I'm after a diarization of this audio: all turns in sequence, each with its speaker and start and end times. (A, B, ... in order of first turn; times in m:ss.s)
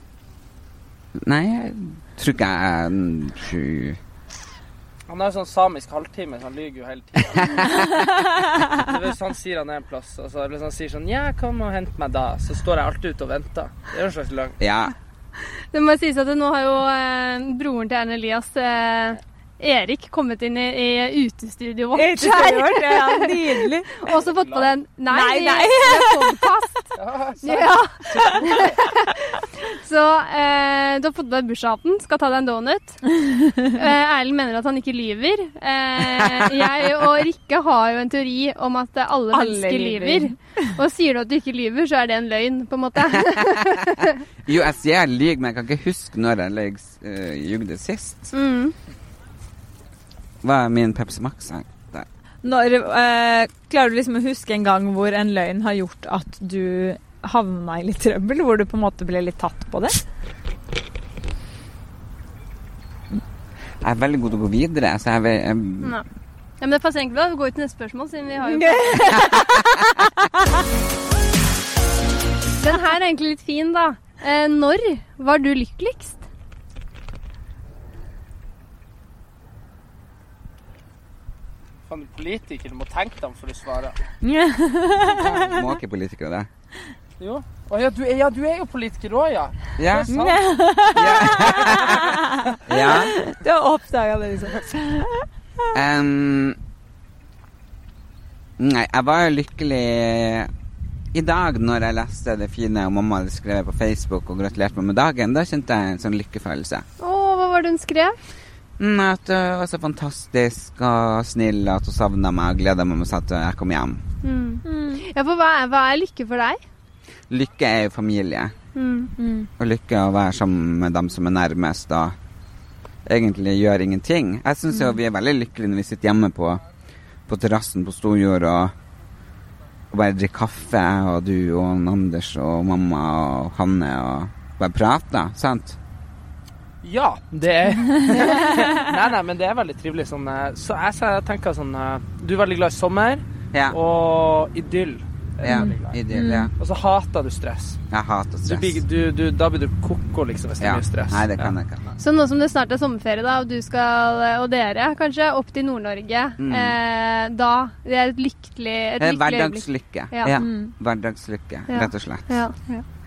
0:01.2-0:04.0 A
0:05.1-0:14.6 B
0:07.4-0:07.6 A
0:08.0-0:08.5 C
0:14.6-0:14.9 A
0:15.7-0:26.9 D
0:21.9-0:24.1 C
0:24.4-0:24.7 B
0:25.1-0:26.5 C
0:27.0-0:28.5 B
0:27.4-0:44.2 D
0:27.6-0:29.2 C
0:33.2-0:33.7 C
0:39.3-0:40.7 C
0:43.2-0:43.8 A
0:44.4-0:48.3 A
0:48.3-0:48.7 D
0:50.4-0:52.1 A
0:52.4-1:00.0 C
1:03.8-1:06.0 A
1:06.6-1:09.4 D
1:08.5-1:10.3 C
1:12.6-1:16.2 D
1:21.9-1:24.0 B
1:24.2-1:25.6 C
1:25.1-1:26.5 A
1:27.2-1:30.4 B
1:29.8-1:30.1 A
1:30.1-1:35.2 C
1:30.9-1:33.2 A
1:30.9-1:32.3 B
1:35.7-1:36.6 A
1:38.6-1:40.5 A
1:41.1-1:46.8 A
1:47.0-1:48.2 D
1:48.8-1:54.0 A
1:54.2-1:56.6 D
1:54.6-1:55.0 C
1:57.3-1:58.5 A
1:58.7-1:59.1 D
1:59.2-1:59.5 C
1:59.6-2:02.1 A
2:03.0-2:06.6 A
2:07.3-2:08.7 A
2:09.9-2:15.8 A
2:16.8-2:26.0 B
2:17.9-2:18.7 C
2:23.5-2:23.8 A
2:25.4-2:26.5 A
2:25.4-2:26.5 C
2:26.5-2:27.8 B
2:27.9-2:28.8 A
2:28.4-2:31.5 B
2:30.6-2:31.8 A
2:32.0-2:40.4 D
2:36.4-2:36.8 A
2:39.0-2:42.3 A
2:40.3-2:40.7 C
2:41.7-2:42.6 D